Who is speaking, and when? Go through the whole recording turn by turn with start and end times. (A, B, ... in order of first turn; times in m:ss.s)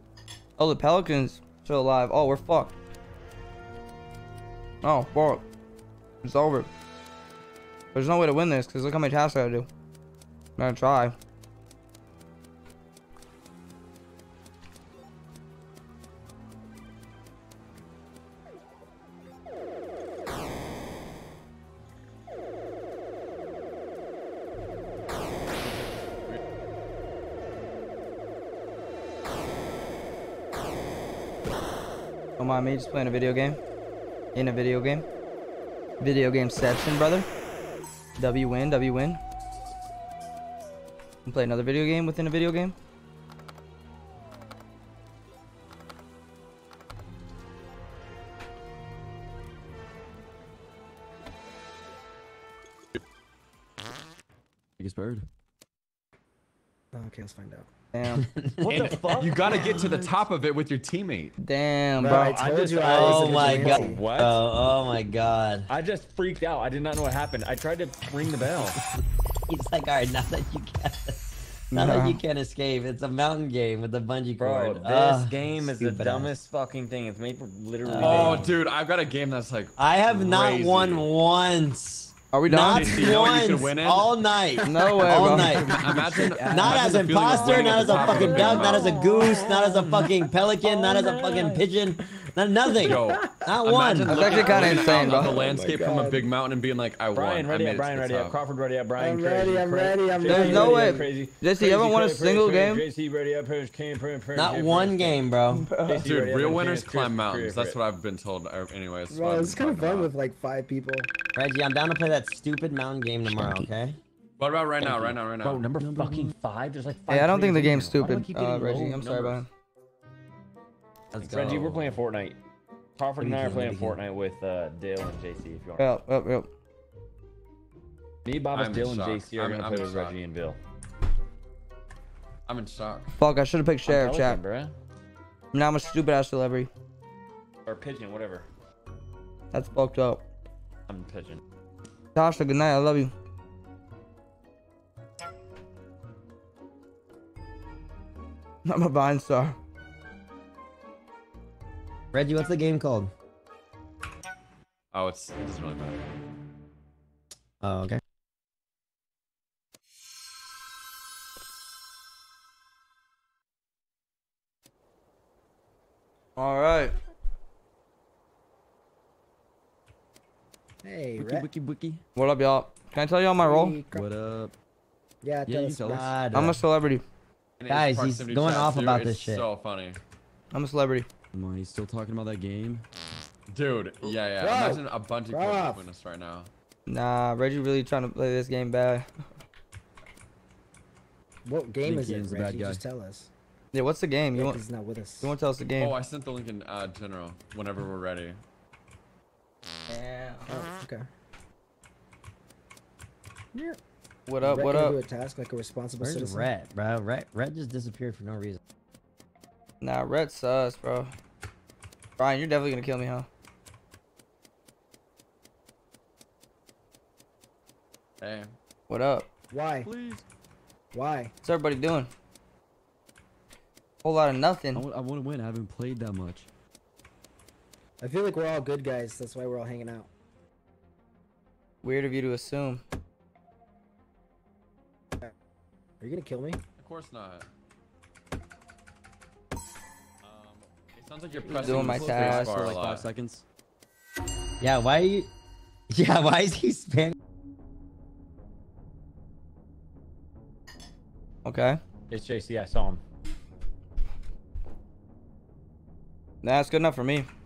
0:00.6-0:02.7 A
0:04.8-0:05.4 A
0:06.2-0:06.7 A
0:07.9-0:09.7 A
0:10.6-0:11.1 A
0:32.4-0:33.6 A
0:34.3-0:35.0 A
0:36.0-0:37.2 A
0:38.2-0:39.2 A
0:41.2-0:42.8 A
0:54.8-0:55.2 B
0:56.9-0:57.6 C
0:57.9-0:58.2 A
0:58.1-0:59.1 D
0:58.6-0:59.8 E
0:59.2-1:01.3 F
1:01.4-1:02.4 A
1:02.0-1:04.0 C
1:02.1-1:04.4 E
1:02.8-1:05.7 D
1:05.7-1:08.8 E
1:09.5-1:16.3 D
1:11.7-1:12.2 A
1:14.4-1:18.5 E
1:17.8-1:18.5 D
1:18.0-1:21.1 F
1:19.8-1:26.0 D
1:22.3-1:23.2 A
1:22.6-1:24.3 F
1:24.6-1:25.5 A
1:25.1-1:30.1 B
1:25.7-1:28.8 F
1:26.5-1:34.8 D
1:26.5-1:30.1 E
1:30.7-1:31.6 E
1:32.6-1:33.4 C
1:32.8-1:38.4 F
1:34.1-1:35.4 A
1:34.1-1:36.3 C
1:37.1-1:45.2 E
1:39.0-1:41.1 C
1:40.3-1:42.8 A
1:44.3-1:45.7 D
1:45.5-1:46.0 A
1:45.8-1:47.8 E
1:46.0-1:50.1 F
1:49.1-1:51.1 C
1:51.3-1:54.0 D
1:54.4-1:55.6 F
1:54.8-1:59.4 E
1:55.7-1:56.3 B
1:57.1-1:59.5 A
2:01.1-2:02.0 D
2:01.2-2:02.4 E
2:03.0-2:05.9 E
2:03.2-2:04.0 D
2:05.8-2:06.5 A
2:08.2-2:10.6 E
2:08.5-2:10.2 F
2:12.5-2:13.1 F
2:13.2-2:14.4 A
2:13.8-2:14.7 E
2:15.5-2:16.7 A
2:17.6-2:18.4 E
2:19.5-2:20.2 A
2:20.9-2:21.4 E
2:22.1-2:23.1 A
2:28.6-2:29.6 A
2:32.1-2:33.1 D
2:34.9-2:36.1 F
2:37.6-2:38.0 D
2:46.4-2:46.9 A
2:50.8-2:51.5 C
2:51.2-2:52.0 B
2:52.2-2:53.8 A
2:53.4-2:54.1 C
2:53.9-2:54.5 B
2:55.2-2:56.1 C
2:55.4-2:56.1 B
2:55.8-2:56.6 D
2:56.3-2:57.0 A
2:57.6-3:00.0 F
2:57.7-2:59.5 D
3:00.5-3:01.1 A
3:01.3-3:02.8 B
3:03.5-3:06.5 F
3:04.4-3:05.9 C
3:06.9-3:09.0 A
3:11.4-3:13.3 C
3:11.8-3:12.8 B
3:13.7-3:14.6 A
3:14.3-3:15.3 C
3:15.2-3:15.9 A
3:15.8-3:18.4 F
3:19.9-3:20.5 A
3:20.5-3:21.0 C
3:24.3-3:25.0 A
3:24.4-3:26.5 C
3:26.0-3:28.6 D
3:29.8-3:31.1 A
3:32.2-3:33.3 A
3:38.2-3:38.5 F
3:38.9-3:39.3 A
3:39.5-3:39.9 C
3:39.8-3:40.2 B
3:40.9-3:41.3 C
3:41.4-3:42.1 A
3:44.0-3:44.8 A
3:44.7-3:46.5 B
3:48.0-3:50.1 C
3:51.8-3:52.8 A
3:56.0-3:56.6 C
3:56.8-3:57.5 F
4:00.2-4:03.1 F
4:01.4-4:03.4 B
4:01.5-4:02.5 A
4:04.6-4:05.3 D
4:05.9-4:07.2 D
4:11.4-4:11.8 A
4:12.1-4:13.0 E
4:16.4-4:17.3 A